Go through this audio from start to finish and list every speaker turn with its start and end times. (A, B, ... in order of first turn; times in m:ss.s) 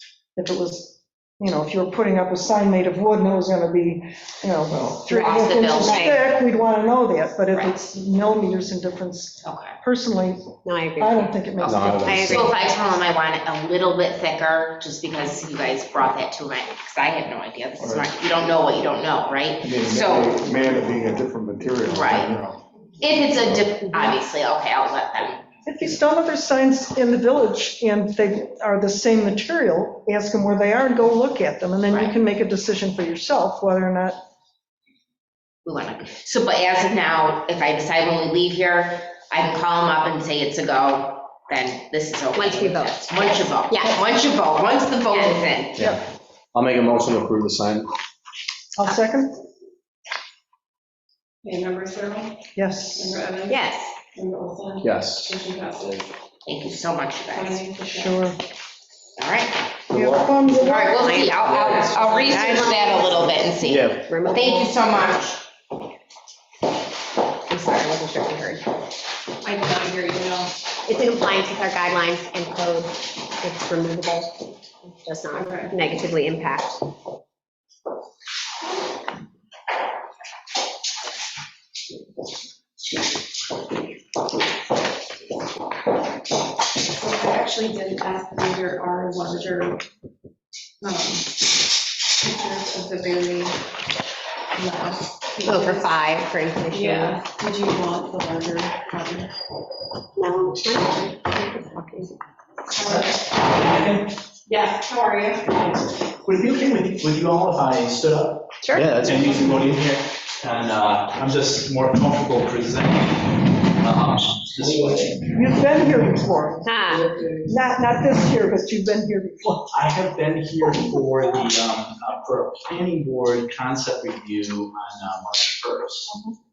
0:00.4-0:10.4 A
0:05.1-0:06.2 B
0:05.8-0:06.2 C
0:09.4-0:09.8 B
0:10.6-0:11.3 C
0:11.0-0:12.5 A
0:11.6-0:20.4 B
0:11.6-0:12.6 D
0:12.0-0:12.5 C
0:17.8-0:18.1 E
0:19.6-0:22.6 E
0:21.9-0:22.4 B
0:23.0-0:25.4 B
0:25.6-0:34.2 A
0:31.9-0:32.2 B
0:35.6-0:45.8 B
0:42.3-0:44.1 C
0:45.1-0:45.5 C
0:45.8-0:46.0 D
0:46.5-0:47.9 D
0:48.8-0:49.4 A
0:51.4-0:52.4 F
0:52.6-0:53.1 A
0:52.9-0:53.6 F
0:53.5-0:53.9 C
0:54.1-0:56.1 F
0:54.8-0:55.3 D
0:56.4-0:57.6 B
0:57.3-0:58.2 F
0:57.8-0:58.4 A
0:59.2-0:59.8 B
0:59.9-1:01.0 A
1:00.5-1:05.4 B
1:00.7-1:04.8 C
1:03.6-1:04.1 D
1:07.5-1:08.7 C
1:09.4-1:10.5 F
1:10.8-1:16.8 C
1:15.3-1:15.8 F
1:26.9-1:29.8 F
1:30.8-1:31.3 F
1:32.2-1:33.6 F
1:34.5-1:35.9 F
1:35.4-1:37.2 C
1:36.7-1:39.3 F
1:40.2-1:42.1 C
1:42.7-1:44.2 G
1:42.8-1:43.2 F
1:44.5-1:45.6 F
1:45.5-1:55.4 G
1:48.6-1:48.9 C
1:48.7-1:49.2 D
1:55.3-1:59.7 A
1:56.6-1:57.1 C
1:59.7-2:06.1 G